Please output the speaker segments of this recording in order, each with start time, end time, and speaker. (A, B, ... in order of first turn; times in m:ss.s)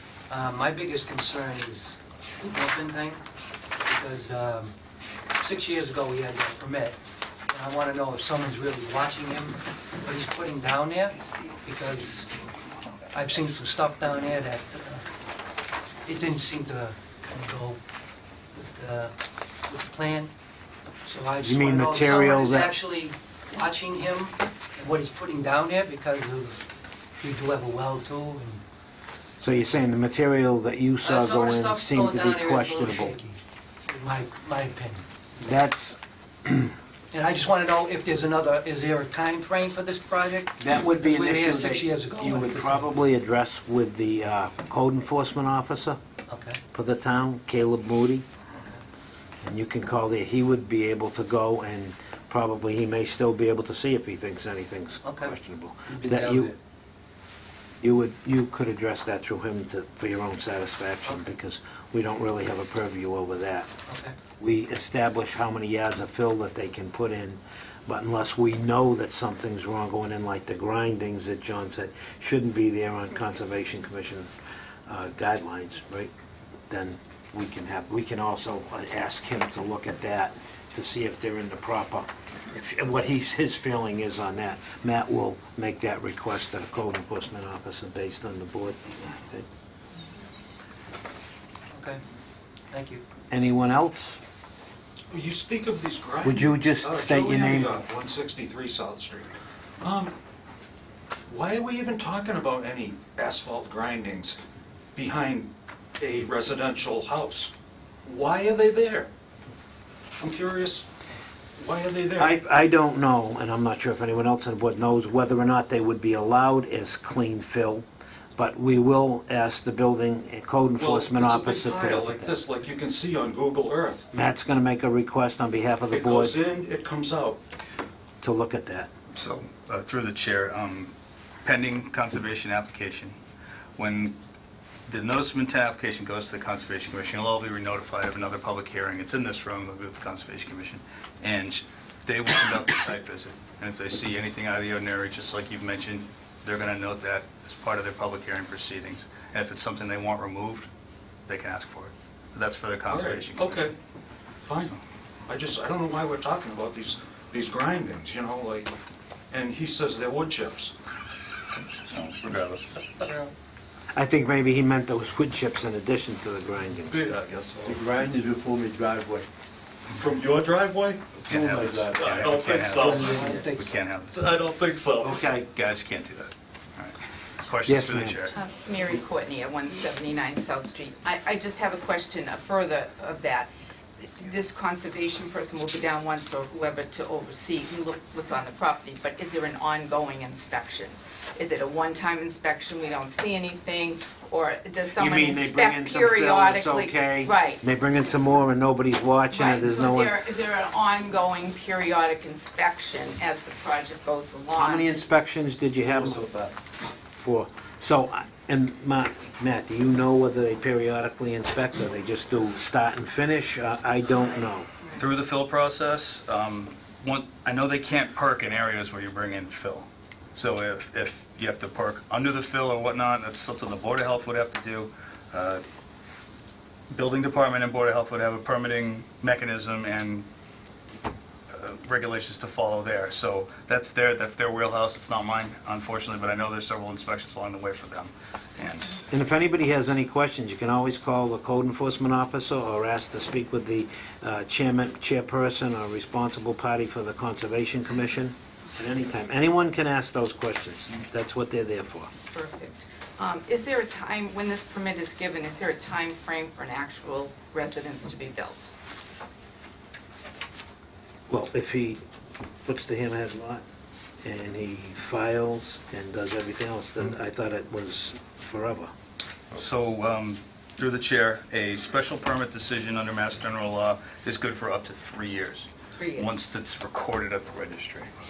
0:00.3-0:03.2 A
0:03.8-0:04.8 A
0:05.4-0:07.0 A
0:07.5-0:12.3 A
0:13.1-0:15.1 A
0:16.1-0:17.8 A
0:18.5-0:19.1 A
0:19.7-0:20.3 A
0:21.1-0:26.6 A
0:21.4-0:22.8 B
0:27.2-0:28.6 A
0:29.4-0:33.2 B
0:31.0-0:35.0 A
0:35.4-0:36.7 B
0:37.1-0:43.0 A
0:40.6-0:46.0 B
0:46.3-0:46.6 A
0:46.7-0:48.2 B
0:48.5-0:48.8 A
0:49.4-0:56.5 B
0:55.0-0:55.4 A
0:55.9-0:56.5 A
0:57.8-1:03.7 B
1:01.0-1:01.4 A
1:03.9-1:04.1 A
1:04.4-1:14.3 B
1:14.9-1:16.1 B
1:16.7-1:29.4 B
1:31.7-1:32.0 A
1:32.7-1:33.0 A
1:33.3-1:34.2 B
1:35.1-1:40.2 C
1:36.2-1:37.8 B
1:41.3-1:44.4 C
1:45.0-1:47.5 C
1:48.0-1:49.1 C
1:50.2-1:50.9 C
1:51.6-1:52.4 C
1:52.2-1:57.8 B
1:58.4-2:02.4 B
2:00.8-2:04.1 C
2:04.1-2:06.4 B
2:05.9-2:07.4 C
2:08.2-2:08.9 B
2:09.1-2:10.9 D
2:11.4-2:13.2 D
2:13.8-2:14.2 D
2:14.9-2:30.7 D
2:31.3-2:33.7 D
2:32.9-2:33.7 C
2:34.4-2:38.7 C
2:39.3-2:40.7 C
2:41.6-2:42.8 D
2:43.9-2:47.1 B
2:46.8-2:47.9 C
2:47.6-2:49.3 E
2:49.9-2:51.2 C
2:51.2-2:54.2 D
2:51.3-2:53.6 E
2:52.0-2:53.4 C
2:53.1-2:53.6 A
2:54.1-2:55.2 C
2:55.0-2:55.4 B
2:55.3-2:58.4 D
2:57.7-2:58.2 B
2:58.3-3:17.6 F
3:15.0-3:20.2 B
3:19.3-3:24.9 F
3:24.6-3:26.3 B
3:25.8-3:26.5 E
3:27.2-3:34.7 B
3:35.0-3:45.6 D
3:46.9-3:50.3 D
3:51.5-3:59.0 D
3:59.1-4:12.1 B
4:12.3-4:18.7 F
4:21.3-4:22.0 B
4:22.6-4:23.6 B
4:24.2-4:28.9 B
4:29.6-4:38.1 D
4:36.0-4:36.4 F